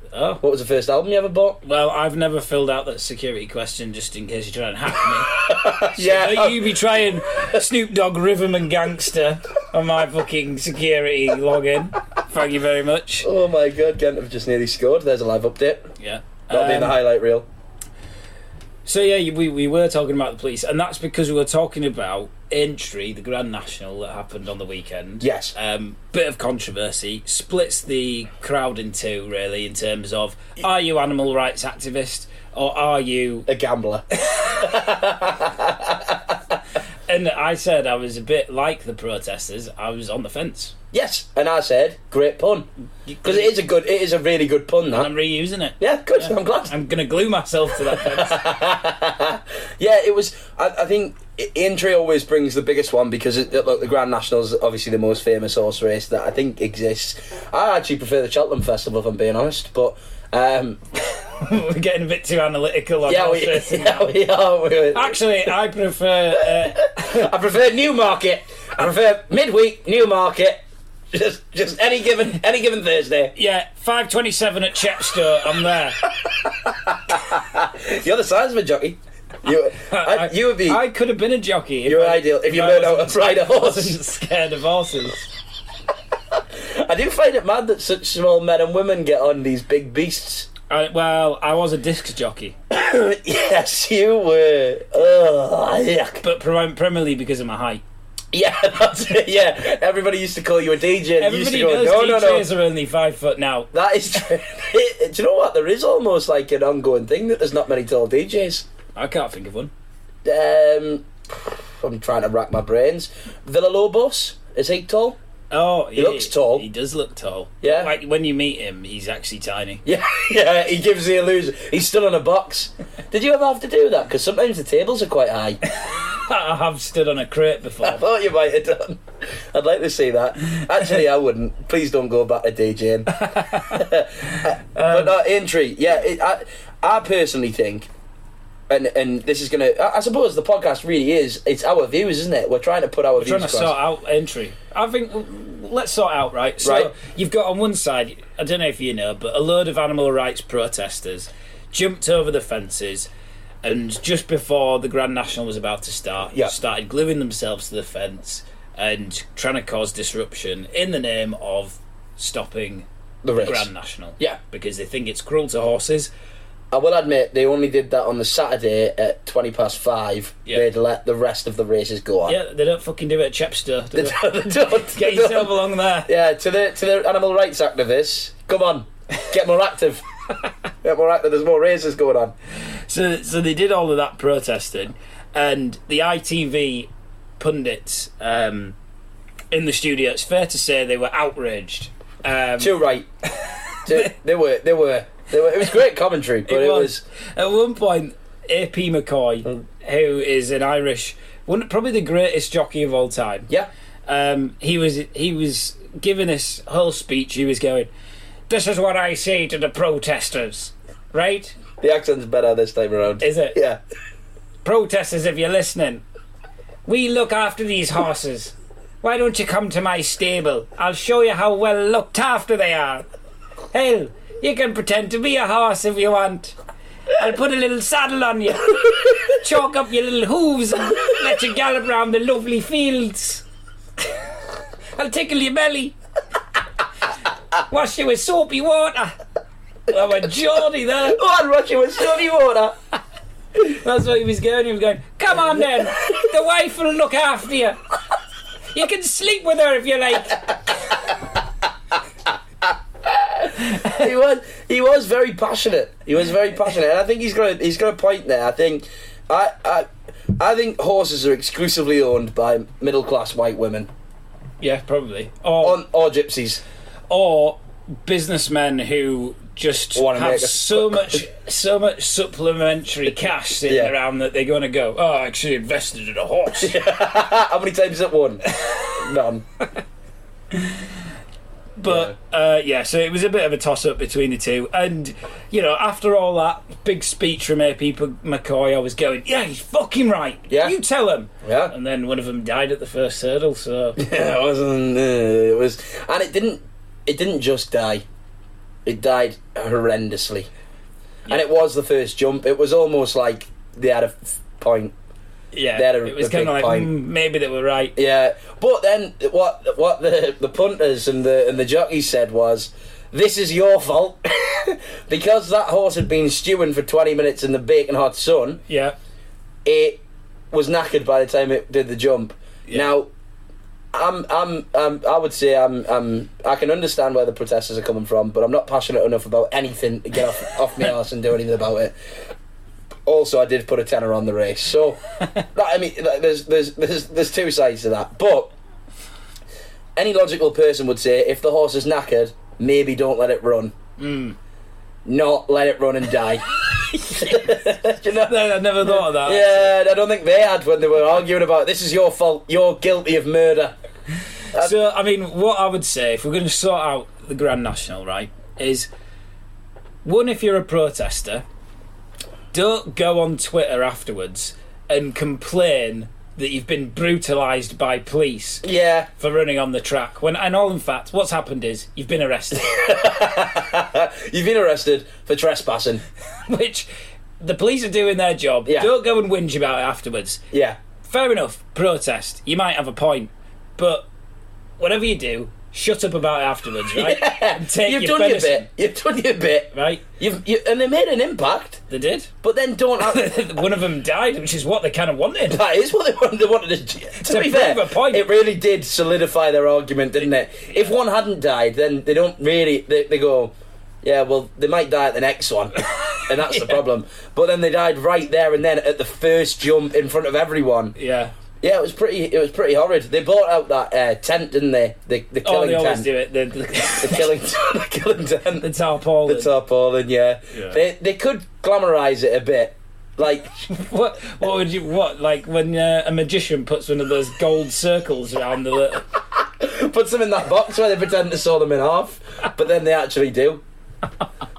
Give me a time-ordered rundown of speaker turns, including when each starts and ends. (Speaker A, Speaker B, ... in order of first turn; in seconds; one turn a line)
Speaker A: 0.1-0.4
Speaker B: 0.4-1.6
Speaker A: 1.6-13.3
Speaker B: 5.3-6.7
Speaker B: 13.2-15.9
Speaker A: 16.0-17.0
Speaker B: 16.5-17.5
Speaker A: 18.9-33.5
Speaker B: 25.2-25.5
Speaker B: 33.5-36.4
Speaker A: 34.2-34.7
Speaker A: 37.1-40.8
Speaker B: 40.9-42.7
Speaker A: 43.1-43.5
Speaker B: 43.2-45.1
Speaker A: 44.9-48.5
Speaker B: 45.8-46.7
Speaker B: 47.9-60.8
Speaker A: 61.1-64.2
Speaker B: 63.1-65.2
Speaker A: 64.9-67.2
Speaker B: 66.8-70.6
Speaker B: 71.1-73.3
Speaker A: 73.3-76.0
Speaker B: 76.2-80.8
Speaker A: 79.9-85.3
Speaker B: 81.9-84.0
Speaker B: 86.3-90.5
Speaker A: 90.7-92.5
Speaker B: 92.7-96.2
Speaker A: 96.2-97.8
Speaker B: 98.3-102.5
Speaker A: 101.2-103.7
Speaker B: 103.7-108.7
Speaker A: 109.0-109.7
Speaker B: 110.2-115.2
Speaker A: 115.5-119.8
Speaker B: 116.0-116.7
Speaker B: 117.6-117.9
Speaker B: 119.8-125.6
Speaker A: 125.7-128.0
Speaker B: 127.8-137.9
Speaker A: 133.1-135.2
Speaker B: 138.7-143.8
Speaker A: 143.2-153.1
Speaker B: 146.6-146.9
Speaker A: 153.6-166.1
Speaker B: 163.2-163.7
Speaker B: 166.7-172.4
Speaker A: 172.3-176.1
Speaker B: 173.9-180.0
Speaker B: 180.8-182.3
Speaker A: 182.9-188.8
Speaker A: 189.5-192.7
Speaker B: 192.6-193.1
Speaker B: 193.8-197.0
Speaker A: 196.5-203.5
Speaker A: 204.1-207.9
Speaker A: 208.5-211.6
Speaker B: 211.8-213.8
Speaker A: 213.2-213.6
Speaker A: 214.7-216.0
Speaker A: 216.9-223.1
Speaker A: 223.7-226.6
Speaker A: 227.1-233.4
Speaker A: 234.9-235.9
Speaker A: 237.6-239.2
Speaker A: 239.9-241.2
Speaker B: 241.1-242.8
Speaker A: 243.6-247.8
Speaker A: 248.7-250.5
Speaker B: 252.7-263.9
Speaker A: 253.6-254.0
Speaker A: 264.6-265.8
Speaker B: 265.6-266.6
Speaker A: 267.1-276.8
Speaker B: 269.9-271.2
Speaker B: 273.7-273.9
Speaker B: 276.6-279.4
Speaker A: 278.5-278.9
Speaker A: 280.5-280.9
Speaker A: 281.8-294.0
Speaker B: 281.9-282.1
Speaker B: 290.5-290.7
Speaker B: 291.4-291.7
Speaker B: 294.0-298.0
Speaker B: 298.9-300.5
Speaker B: 301.3-304.9
Speaker A: 305.5-307.9
Speaker B: 305.7-306.9
Speaker B: 308.0-318.6
Speaker A: 318.7-319.0
Speaker B: 319.6-323.1
Speaker B: 323.9-331.9
Speaker B: 333.1-338.5
Speaker B: 340.0-343.7
Speaker A: 344.0-344.4
Speaker B: 345.1-353.8
Speaker A: 347.2-347.4
Speaker A: 348.2-349.7
Speaker A: 354.5-358.9
Speaker A: 360.0-361.4
Speaker A: 362.5-368.6
Speaker B: 368.6-369.1
Speaker A: 369.2-372.8
Speaker B: 372.6-376.0
Speaker A: 376.5-376.9
Speaker A: 377.4-380.4
Speaker B: 380.5-380.8
Speaker A: 381.0-384.1
Speaker A: 384.8-388.7
Speaker B: 386.9-391.8
Speaker A: 389.7-390.0
Speaker A: 391.9-392.3
Speaker B: 392.4-393.5
Speaker A: 393.0-395.6
Speaker B: 395.5-410.9
Speaker A: 397.2-398.2
Speaker A: 405.9-406.8
Speaker A: 411.0-411.3
Speaker B: 411.6-416.1
Speaker A: 415.4-417.3
Speaker B: 417.0-418.7
Speaker A: 418.6-419.5
Speaker B: 419.3-423.6
Speaker A: 420.5-420.8
Speaker A: 423.7-429.1
Speaker B: 429.4-433.6